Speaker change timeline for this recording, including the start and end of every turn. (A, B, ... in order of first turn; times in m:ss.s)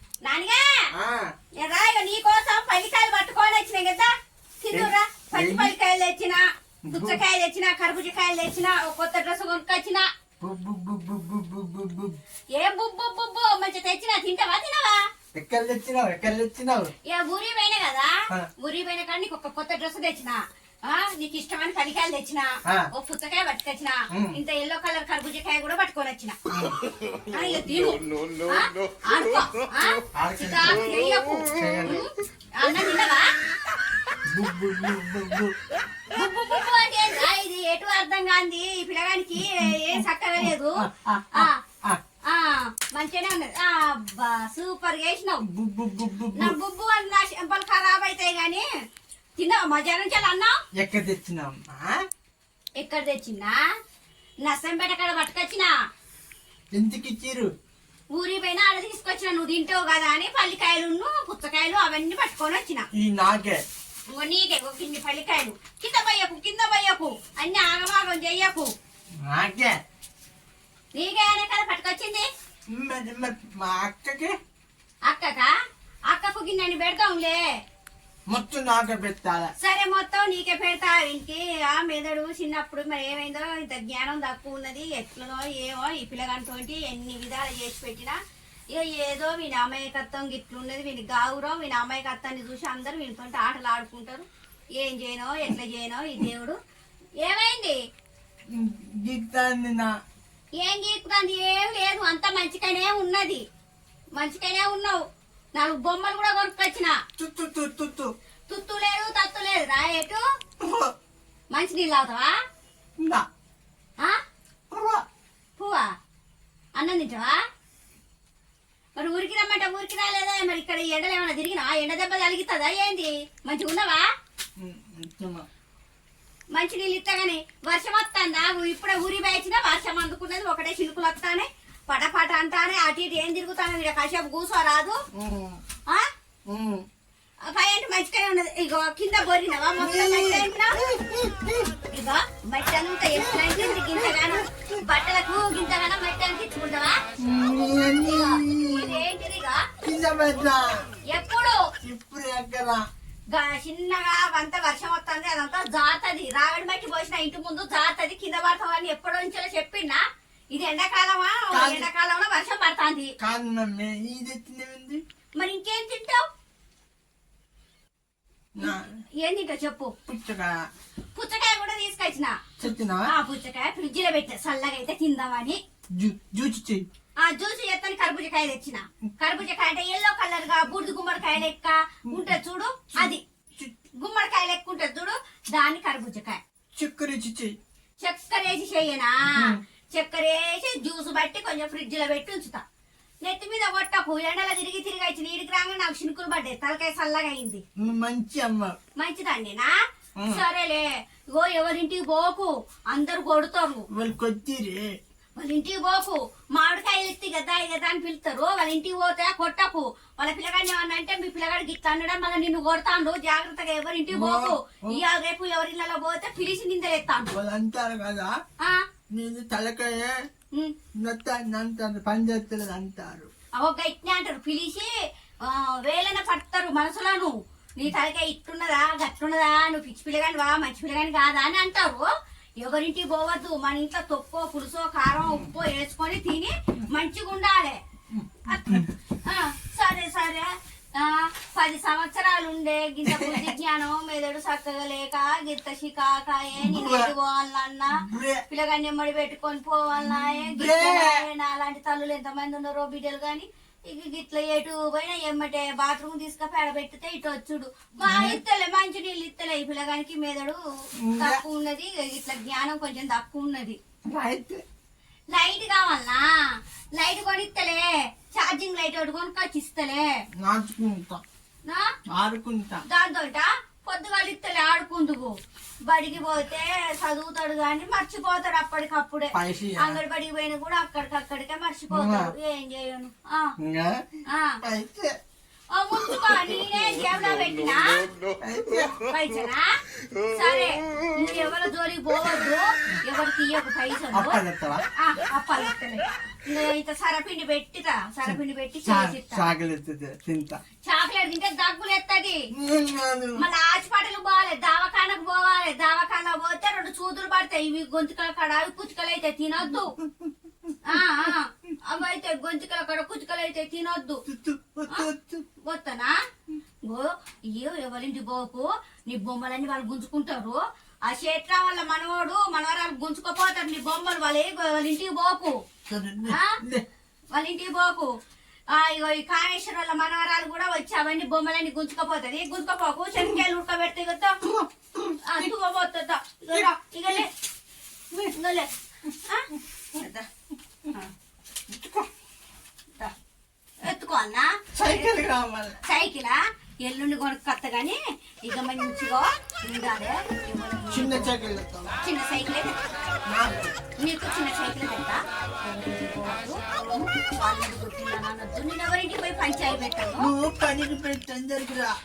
0:00.2-0:00.9 A
0:00.9-0:01.3 B
0:01.6-0:10.1 A
0:04.7-0:05.8 B
0:06.9-0:07.2 B
0:10.4-0:12.2 B
0:12.5-0:15.0 A
0:15.3-0:16.9 B
0:17.0-0:26.4 A
0:24.1-0:24.4 B
0:26.5-0:26.9 B
0:27.3-0:33.3 A
0:30.1-0:32.0 B
0:34.3-0:35.5 B
0:36.1-0:41.6 A
0:39.4-0:42.0 B
0:42.2-0:45.4 A
0:45.5-0:46.6 B
0:46.3-0:48.6 A
0:49.4-0:50.6 A
0:50.8-0:52.0 B
0:52.8-0:53.6 A
0:54.4-0:55.7 A
0:56.7-0:57.5 B
0:58.1-1:02.9 A
1:02.9-1:03.6 B
1:04.1-1:08.7 A
1:09.2-1:09.8 B
1:11.0-1:12.3 A
1:12.7-1:14.3 B
1:15.1-1:15.5 A
1:16.1-1:17.5 A
1:18.3-1:19.5 B
1:19.6-1:28.2 A
1:28.7-1:34.3 A
1:34.8-1:36.6 A
1:37.2-1:37.8 A
1:38.5-1:40.0 B
1:40.6-1:43.4 A
1:44.2-1:45.0 A
1:45.5-1:47.0 A
1:47.2-1:48.1 B
1:48.5-1:50.2 A
1:50.6-1:50.9 B
1:51.5-1:52.3 A
1:53.0-1:53.3 B
1:54.7-1:55.0 B
1:55.6-1:55.9 A
1:56.8-1:57.4 A
1:59.0-2:04.0 A
2:04.6-2:05.4 B
2:06.5-2:15.0 A
2:15.1-2:15.6 B
2:16.5-2:16.8 B
2:17.4-2:20.8 A
2:19.8-2:21.7 B
2:21.9-2:27.0 A
2:23.1-2:24.8 B
2:27.2-2:29.0 B
2:27.7-2:29.7 A
2:29.8-2:30.8 B
2:31.1-2:31.6 A
2:31.8-2:32.8 B
2:33.3-2:40.0 A
2:40.5-2:43.1 A
2:41.5-2:41.9 B
2:43.2-2:45.0 B
2:45.4-2:46.2 A
2:48.6-2:48.9 B
2:48.6-2:49.9 A
2:50.1-2:50.6 B
2:51.1-2:52.4 A
2:52.6-2:53.1 B
2:53.1-2:55.6 A
2:55.9-2:56.8 B
2:57.2-3:03.2 A
3:03.0-3:03.7 B
3:04.0-3:06.4 A
3:06.8-3:07.5 B
3:08.0-3:12.6 A
3:09.3-3:09.6 B
3:13.2-3:17.6 A
3:17.8-3:18.8 B
3:19.0-3:19.7 A
3:20.2-3:20.4 B
3:20.3-3:23.8 A
3:23.9-3:24.9 B
3:25.4-3:37.4 A
3:34.1-3:35.0 B
3:37.3-3:38.3 B
3:38.6-3:38.8 A
3:39.1-3:40.2 B
3:40.9-3:43.3 B
3:43.6-3:44.9 A
3:45.4-3:52.1 A
3:52.6-3:57.8 A
3:58.1-3:58.9 B
3:58.5-4:20.6 A
4:03.0-4:03.5 B
4:06.6-4:07.1 B
4:07.9-4:08.4 B
4:09.9-4:11.3 B
4:18.0-4:18.4 B
4:21.0-4:21.4 B
4:21.2-4:23.8 A
4:24.1-4:24.6 B
4:25.3-4:30.2 A
4:30.4-4:31.2 B
4:31.7-4:31.9 A
4:32.1-4:32.8 B
4:32.9-4:43.6 A
4:39.3-4:40.0 B
4:41.9-4:42.3 B
4:43.6-4:44.1 B
4:44.3-4:44.6 A
4:44.6-4:45.2 B
4:45.7-4:48.1 A
4:48.4-4:49.0 B
4:49.0-4:49.8 A
4:50.3-4:54.4 A
4:54.1-4:54.8 B
4:55.0-4:59.5 A
4:58.2-5:00.6 B
5:00.8-5:02.4 A
5:02.5-5:03.4 B
5:03.4-5:09.9 A
5:09.7-5:11.0 B
5:10.8-5:14.2 A
5:14.2-5:15.4 B
5:15.6-5:16.2 A
5:16.9-5:25.6 A
5:25.9-5:26.9 B
5:26.2-5:26.6 A
5:27.3-5:28.1 A
5:28.7-5:34.4 A
5:34.4-5:35.5 B
5:35.2-5:37.3 A
5:36.5-5:37.2 B
5:38.1-5:40.3 A
5:40.9-5:41.1 A
5:41.7-5:42.1 B
5:43.8-5:45.2 A
5:44.8-5:45.8 B
5:45.8-5:51.3 A
5:50.9-5:51.9 B
5:52.0-5:52.8 A
5:53.3-5:53.7 B
5:54.0-6:00.3 A
6:00.2-6:01.9 B